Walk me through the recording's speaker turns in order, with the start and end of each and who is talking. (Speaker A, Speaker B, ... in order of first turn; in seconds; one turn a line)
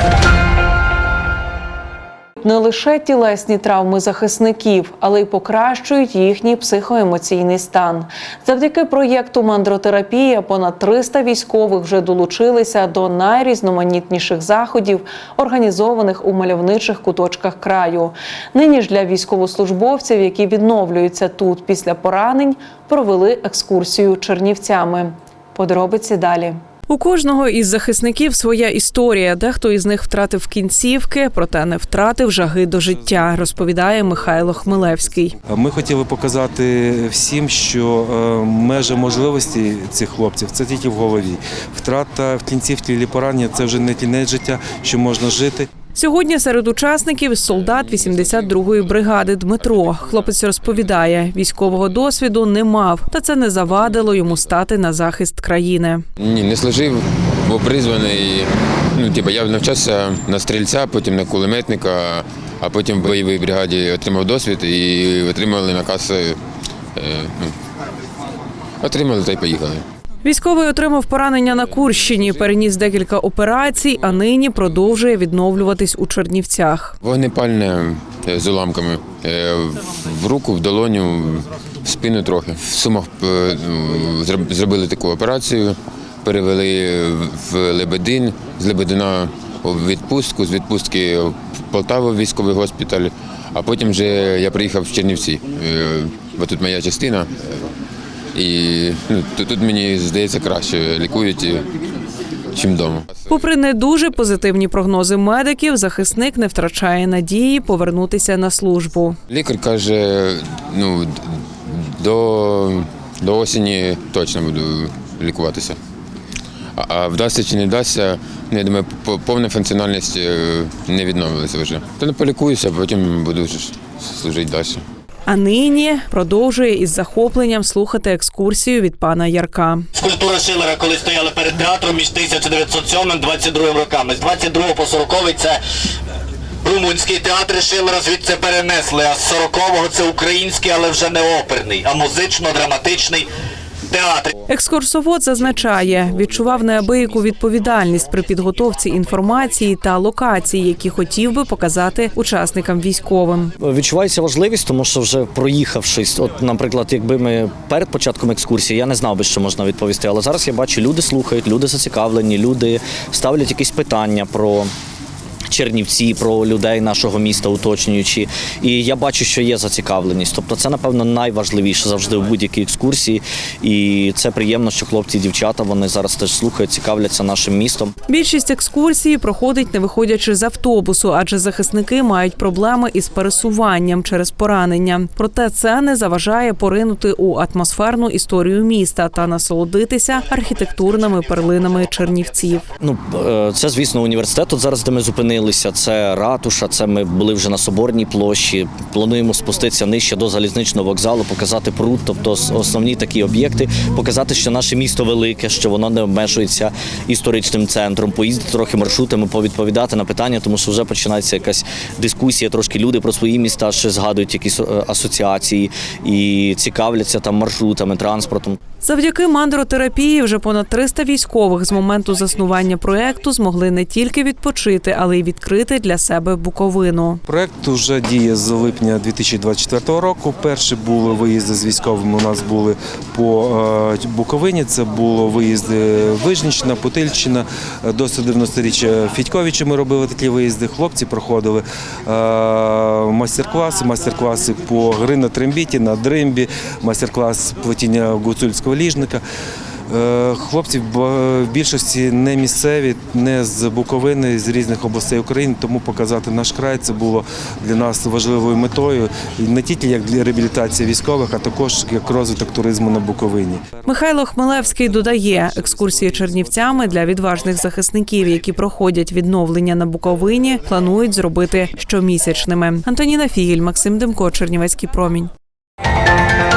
Speaker A: 2.4-35.4
Speaker B: 32.7-45.7
Speaker A: 45.9-56.1
Speaker C: 56.2-66.4
Speaker C: 67.0-67.5
Speaker C: 68.8-69.8
Speaker A: 70.2-77.0
Speaker C: 77.0-97.3
Speaker C: 98.3-101.7
Speaker C: 102.5-103.4
Speaker A: 103.3-109.2
Speaker C: 109.3-115.8
Speaker C: 116.8-124.8
Speaker A: 125.3-129.9
Speaker D: 129.9-135.6
Speaker D: 136.6-143.3
Speaker D: 143.9-144.3
Speaker A: 144.5-153.6
Speaker E: 153.6-164.7
Speaker E: 165.5-177.9
Speaker A: 178.1-192.7
Speaker E: 192.8-218.6
Speaker A: 218.8-227.2
Speaker B: 227.3-249.2
Speaker B: 249.9-263.9
Speaker A: 263.9-275.3
Speaker B: 264.7-266.9